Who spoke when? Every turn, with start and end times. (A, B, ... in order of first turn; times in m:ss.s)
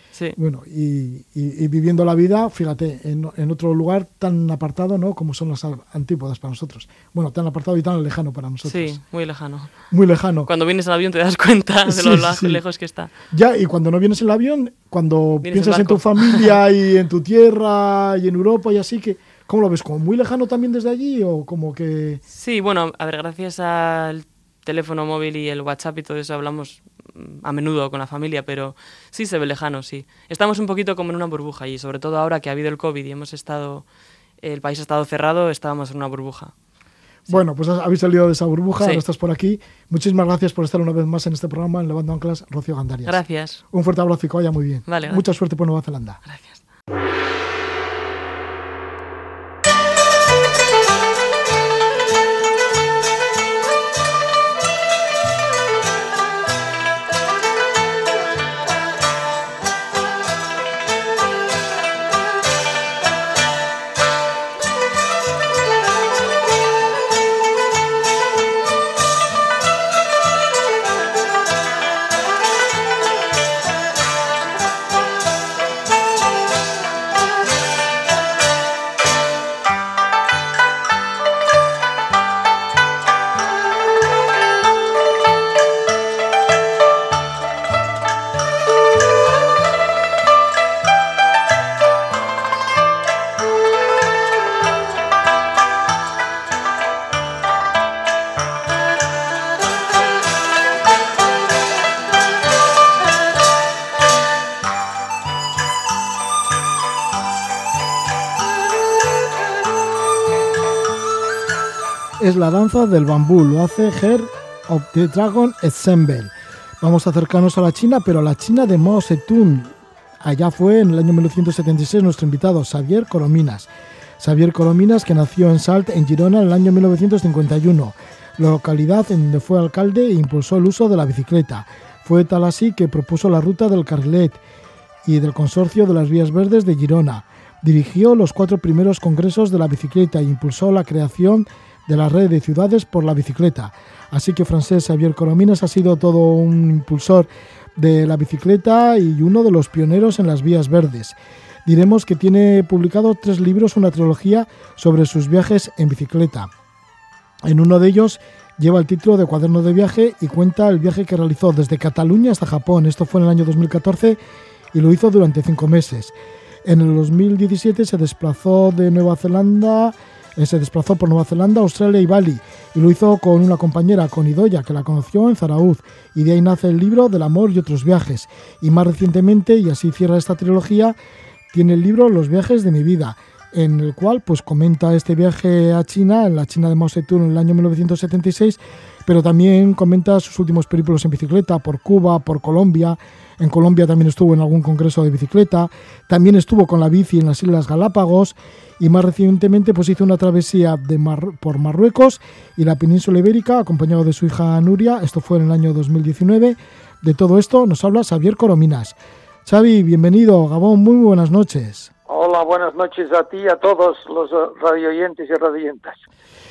0:00.4-0:09.0 A
0:08.6-0:09.8 B
0:09.9-0:10.5 A
0:10.4-0:13.1 B
0:11.9-0:12.6 A
0:13.3-0:22.2 A
0:15.4-0:16.5 B
0:22.3-0:33.9 B
0:34.4-0:36.6 B
0:37.3-0:46.2 A
0:43.1-0:43.6 B
0:44.9-0:45.2 B
0:46.2-0:46.6 B
1:52.2-2:14.4 A
2:15.0-2:36.5 A
2:37.4-2:44.2 A
2:44.7-3:01.0 A
3:01.5-3:31.9 A
3:32.1-3:36.0 C